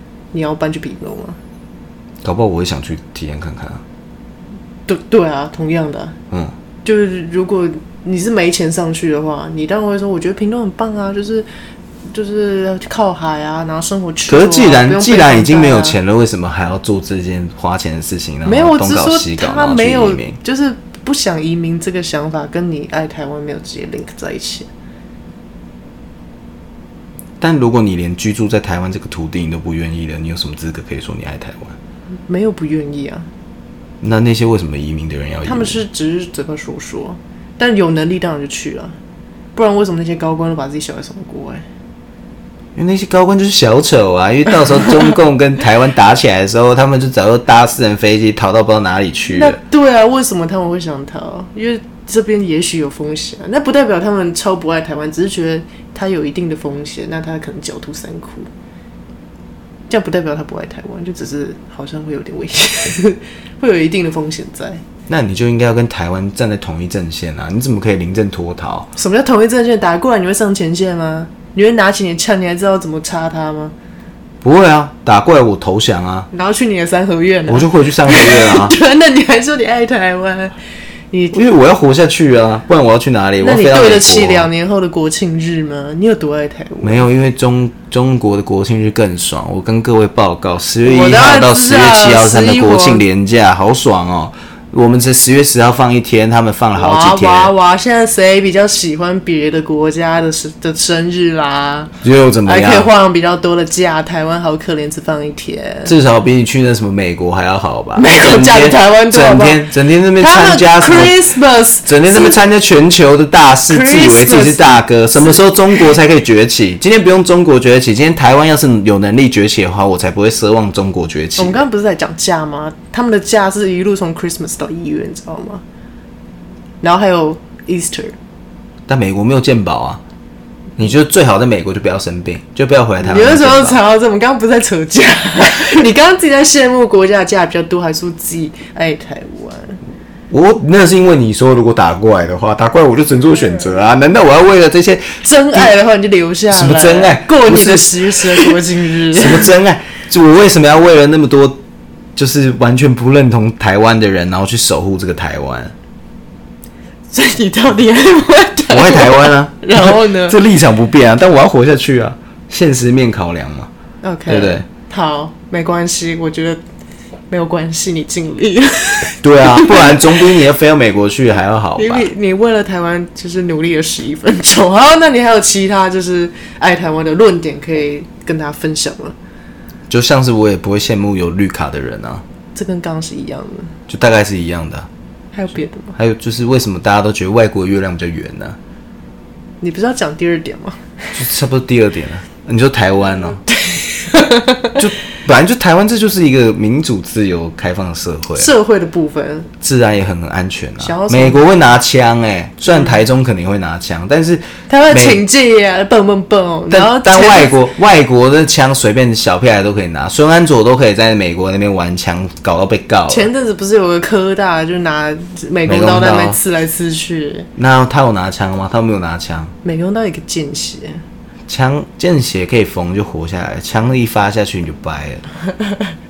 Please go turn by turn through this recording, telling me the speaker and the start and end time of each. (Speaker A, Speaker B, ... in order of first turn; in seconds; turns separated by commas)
Speaker A: 0.3-1.4, Speaker B: 2.2-3.8, Speaker A: 4.9-6.2, Speaker A: 6.8-11.5, Speaker A: 12.1-16.0, Speaker B: 14.3-20.4, Speaker A: 18.4-24.7, Speaker B: 27.4-31.8, Speaker A: 32.3-33.3, Speaker B: 34.0-35.8, Speaker A: 35.5-39.0, Speaker A: 39.5-41.6, Speaker B: 42.8-49.6, Speaker A: 49.3-58.5, Speaker A: 59.9-64.8, Speaker B: 65.1-68.9, Speaker A: 69.0-73.7, Speaker B: 74.4-76.3, Speaker A: 76.3-80.5, Speaker B: 77.5-78.8, Speaker A: 81.1-81.4, Speaker B: 81.3-84.5, Speaker A: 83.4-87.0, Speaker B: 86.8-97.5, Speaker A: 90.8-93.0, Speaker A: 96.8-101.9, Speaker B: 102.0-102.9, Speaker A: 102.5-106.0, Speaker B: 105.9-111.2, Speaker A: 108.0-112.4, Speaker B: 111.8-121.7, Speaker A: 113.7-115.9, Speaker A: 121.4-125.6, Speaker A: 126.8-128.2, Speaker B: 128.9-130.0, Speaker B: 130.8-133.8, Speaker A: 133.0-139.8, Speaker B: 140.3-145.7, Speaker A: 145.2-149.5, Speaker B: 146.5-148.6, Speaker B: 149.1-151.6, Speaker B: 152.2-155.7, Speaker A: 157.1-160.4, Speaker B: 158.7-163.7, Speaker A: 164.0-166.6, Speaker B: 164.3-164.6, Speaker A: 167.3-170.1, Speaker B: 169.2-172.1, Speaker A: 171.8-179.1, Speaker B: 179.9-182.2, Speaker A: 182.5-183.8, Speaker B: 183.9-184.9, Speaker A: 185.3-186.0, Speaker B: 186.0-188.6, Speaker A: 189.6-190.9, Speaker B: 191.1-193.4, Speaker A: 193.5-194.8, Speaker B: 194.8-198.5, Speaker A: 198.4-199.5, Speaker B: 199.6-205.2, Speaker A: 200.8-201.4, Speaker A: 202.7-203.0, Speaker A: 204.7-207.6, Speaker B: 206.7-213.3, Speaker A: 213.1-217.5, Speaker B: 215.7-216.4, Speaker B: 217.6-219.5, Speaker A: 219.6-221.0, Speaker B: 221.5-225.2